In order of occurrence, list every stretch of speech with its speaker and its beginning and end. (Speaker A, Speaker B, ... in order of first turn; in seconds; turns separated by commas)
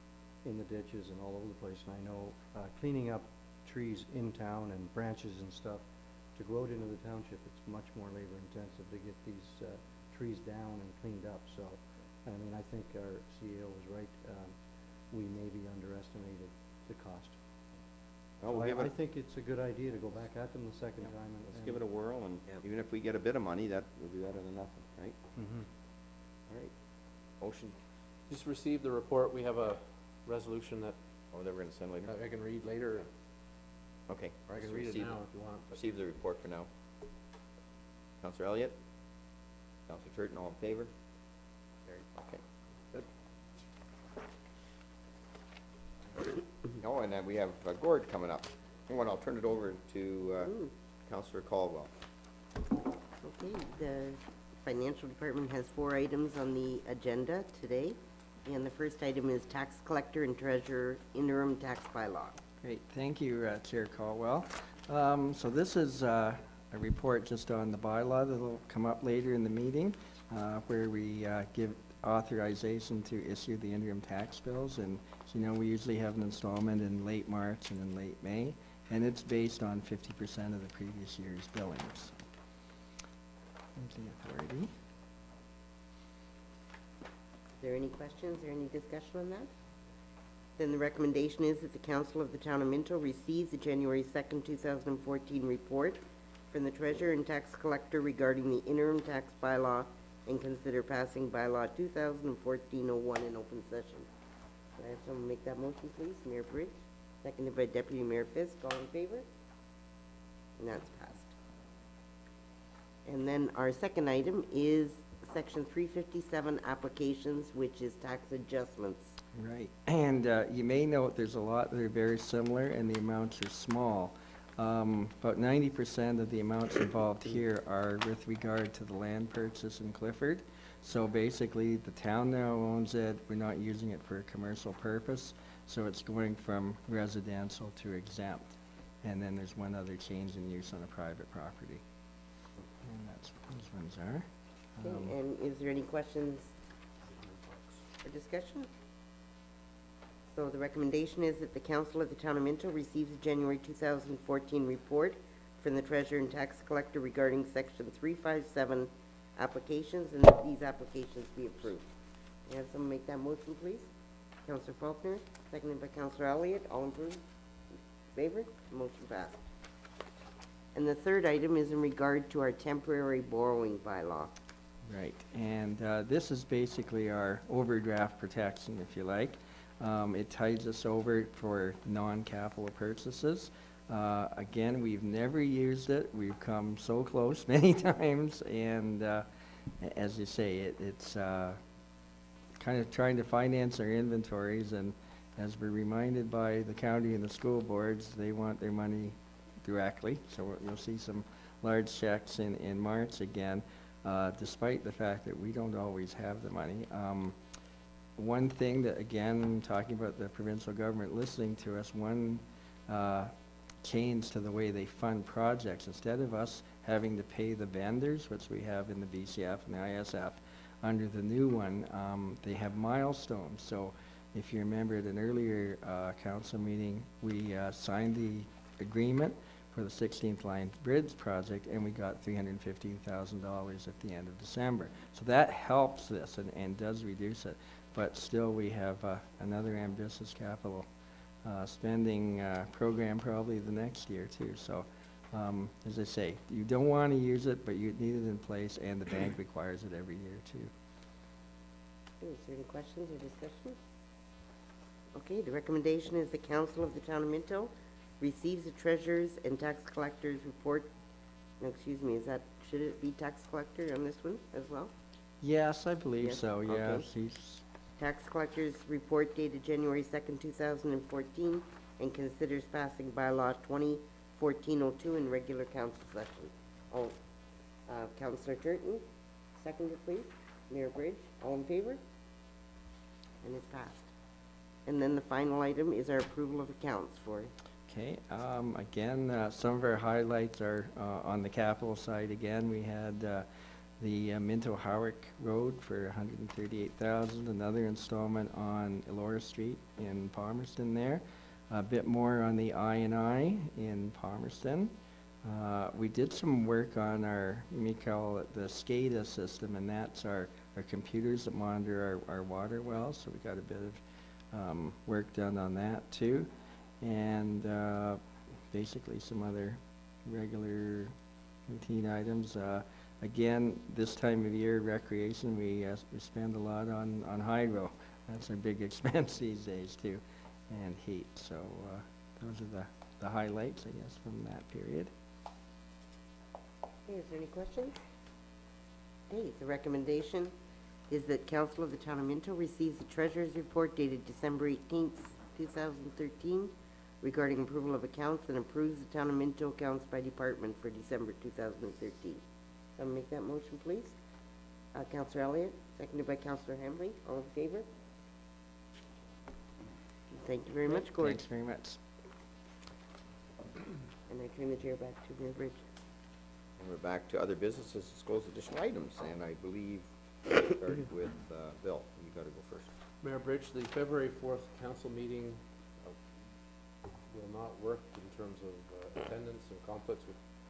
Speaker A: 0.4-5.8, Speaker A: 6.3-14.6, Speaker A: 15.1-17.3, Speaker B: 18.4-18.9, Speaker A: 18.5-21.8, Speaker B: 21.4-25.2, Speaker A: 25.4-25.6, Speaker B: 27.4-27.8, Speaker C: 28.3-30.9, Speaker B: 31.3-32.1, Speaker C: 32.1-33.1, Speaker B: 34.1-35.2, Speaker C: 34.5-35.8, Speaker B: 35.7-36.7, Speaker B: 38.2-38.8, Speaker B: 39.9-40.9, Speaker B: 41.9-42.4, Speaker B: 46.8-51.9, Speaker D: 50.4-50.7, Speaker D: 53.2-62.4, Speaker E: 62.6-82.2, Speaker E: 83.8-84.7, Speaker D: 87.6-89.5, Speaker D: 90.6-104.1, Speaker D: 104.8-109.2, Speaker D: 110.6-111.3, Speaker D: 113.0-119.2, Speaker E: 119.3-138.5, Speaker E: 139.0-141.8, Speaker E: 142.8-144.2, Speaker E: 144.8-145.2, Speaker D: 144.8-146.5, Speaker D: 148.0-148.7, Speaker D: 150.3-161.9, Speaker D: 162.5-163.9, Speaker D: 164.4-167.2, Speaker D: 168.1-169.4, Speaker D: 170.7-174.4, Speaker E: 174.9-189.2, Speaker E: 189.8-191.6, Speaker E: 192.6-207.3, Speaker E: 208.2-213.3, Speaker E: 213.8-240.9, Speaker E: 241.4-250.7, Speaker D: 252.2-253.8, Speaker D: 255.1-260.9, Speaker D: 261.6-264.9, Speaker E: 265.4-267.6, Speaker D: 266.2-267.0, Speaker D: 268.0-277.2, Speaker D: 277.9-279.0, Speaker D: 279.6-282.0, Speaker D: 283.4-284.1, Speaker D: 284.9-287.5, Speaker E: 287.9-293.4, Speaker E: 294.0-304.9, Speaker E: 305.4-314.0, Speaker E: 314.5-316.5, Speaker E: 317.0-321.1, Speaker E: 321.7-335.1, Speaker D: 337.1-338.0, Speaker D: 339.3-340.5, Speaker D: 341.1-352.4, Speaker D: 353.0-354.1, Speaker D: 354.9-357.9, Speaker D: 360.3-361.4, Speaker E: 360.9-362.0, Speaker D: 364.3-365.8, Speaker B: 366.8-372.9, Speaker C: 373.2-376.2, Speaker C: 377.3-380.4